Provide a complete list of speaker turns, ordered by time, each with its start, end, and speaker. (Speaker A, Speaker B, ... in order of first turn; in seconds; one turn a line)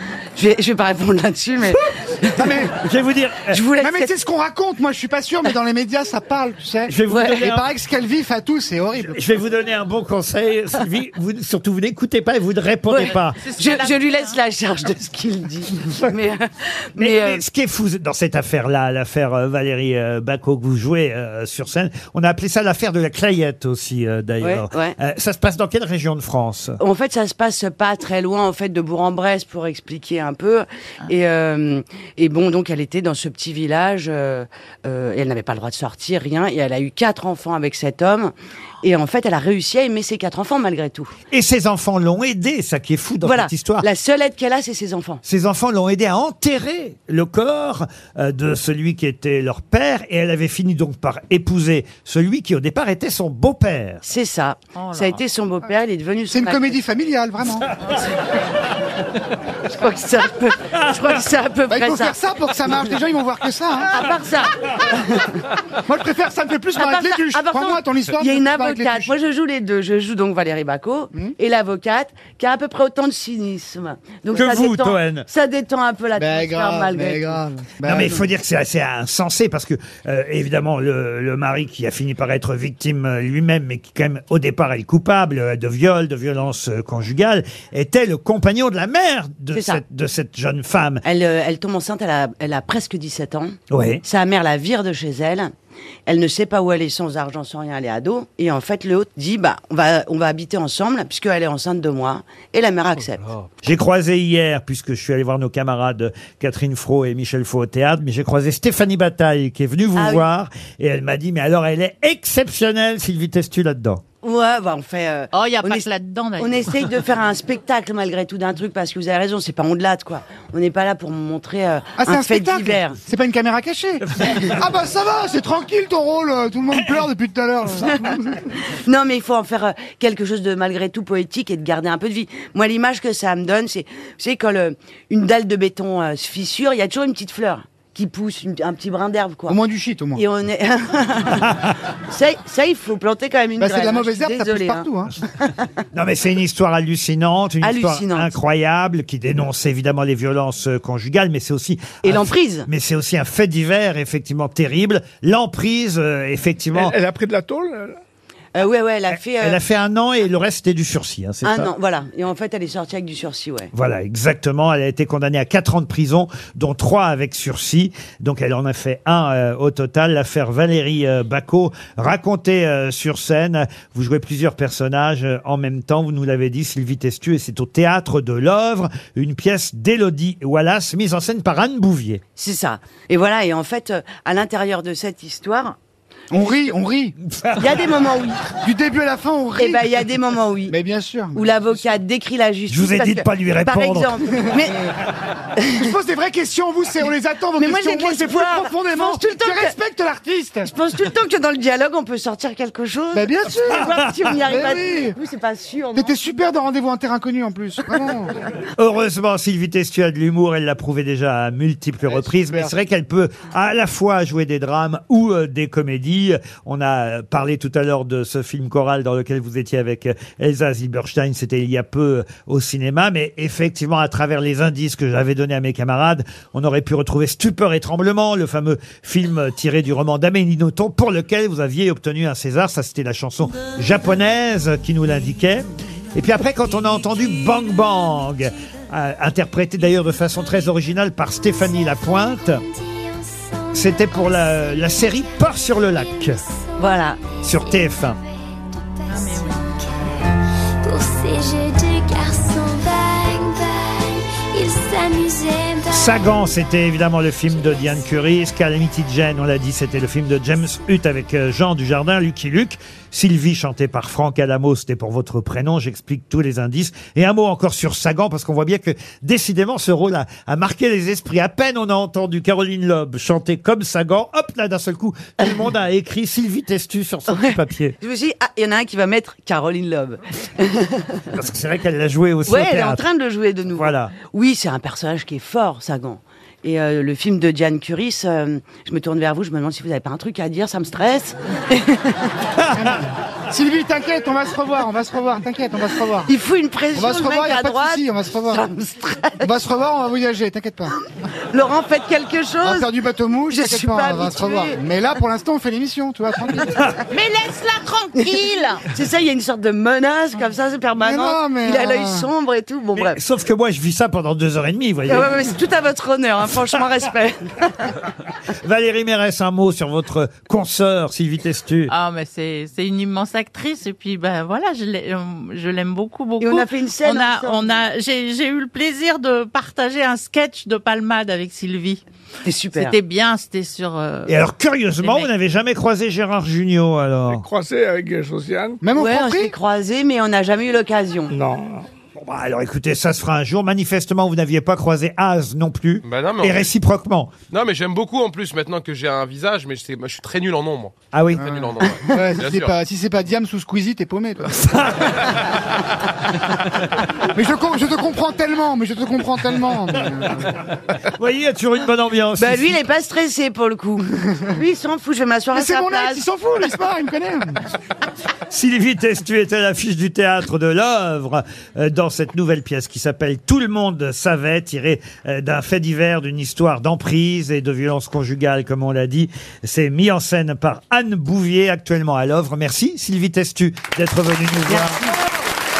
Speaker A: 0.3-2.6
Speaker B: 2.4-2.7
Speaker C: 2.8-3.6
Speaker A: 3.5-4.1
Speaker B: 3.8-9.2
Speaker C: 6.9-7.7
Speaker A: 7.1-7.4
Speaker C: 9.1-13.4
Speaker A: 12.9-17.4
Speaker D: 13.0-14.4
Speaker C: 17.0-26.8
Speaker A: 24.4-25.0
Speaker A: 26.8-41.1
Speaker C: 41.3-43.9
Speaker A: 43.2-45.2
Speaker C: 45.2-54.0
Speaker A: 54.0-56.8
Speaker D: 54.7-55.2
Speaker B: 56.3-57.7
Speaker A: 59.7-62.1
Speaker B: 61.7-63.9
Speaker A: 63.9-65.3
Speaker B: 65.9-69.1
Speaker A: 66.8-77.4
Speaker C: 74.3-75.3
Speaker B: 76.2-78.2
Speaker C: 77.8-91.0
Speaker A: 89.5-89.8
Speaker A: 91.0-95.5
Speaker C: 93.7-94.0
Speaker A: 96.0-103.3
Speaker C: 103.6-114.0
Speaker A: 109.9-110.2
Speaker A: 114.2-123.0
Speaker D: 115.3-116.7
Speaker B: 122.0-128.4
Speaker A: 128.5-139.6
Speaker B: 139.5-140.2
Speaker A: 140.1-141.5
Speaker A: 142.1-145.5
Speaker B: 143.6-145.1
Speaker C: 145.9-156.9
Speaker A: 147.6-148.3
Speaker A: 152.0-152.7
Speaker E: 156.7-158.0
Speaker A: 158.5-159.6
Speaker C: 159.1-161.7
Speaker A: 161.4-163.7
Speaker C: 163.7-182.2
Speaker A: 182.4-185.8
Speaker B: 186.3-187.2
Speaker C: 187.3-187.7
Speaker A: 187.6-188.4
Speaker B: 188.6-189.9
Speaker A: 189.6-190.8
Speaker B: 190.7-191.4
Speaker A: 191.3-194.9
Speaker C: 192.7-194.1
Speaker A: 195.6-195.9
Speaker B: 195.8-200.7
Speaker A: 197.6-199.8
Speaker A: 200.6-206.1
Speaker B: 203.1-205.2
Speaker C: 203.8-204.2
Speaker B: 205.9-208.4
Speaker C: 208.8-242.6
Speaker B: 212.1-212.7
Speaker F: 241.5-250.3
Speaker C: 243.7-246.4
Speaker A: 246.8-247.2
Speaker C: 247.4-248.2
Speaker D: 249.1-249.8
Speaker F: 250.8-256.3
Speaker C: 255.9-277.9
Speaker F: 257.5-258.0
Speaker A: 277.3-281.2
Speaker C: 281.3-283.0
Speaker A: 282.5-292.3
Speaker C: 283.8-284.1
Speaker B: 292.7-296.3
Speaker A: 296.2-299.5
Speaker B: 296.9-298.6
Speaker B: 299.4-300.9
Speaker A: 301.5-302.9
Speaker B: 302.6-306.8
Speaker A: 303.5-304.8
Speaker D: 307.1-308.8
Speaker A: 308.1-313.2
Speaker B: 311.0-312.3
Speaker C: 313.0-315.3
Speaker A: 315.1-317.9
Speaker C: 318.6-321.9
Speaker D: 321.9-332.0
Speaker A: 326.4-327.8
Speaker A: 332.4-333.0
Speaker D: 332.7-334.4
Speaker C: 334.2-337.4
Speaker D: 335.0-335.3
Speaker E: 337.3-338.8
Speaker B: 338.8-339.5
Speaker A: 338.9-341.3
Speaker E: 341.3-341.9
Speaker C: 342.1-347.3
Speaker G: 346.0-346.7
Speaker G: 347.5-352.7
Speaker C: 351.1-351.5
Speaker B: 351.4-354.6
Speaker C: 354.6-355.6
Speaker B: 357.3-360.6
Speaker C: 361.1-362.8
Speaker A: 362.4-366.2
Speaker B: 365.5-367.6
Speaker C: 368.5-385.1
Speaker B: 384.8-385.1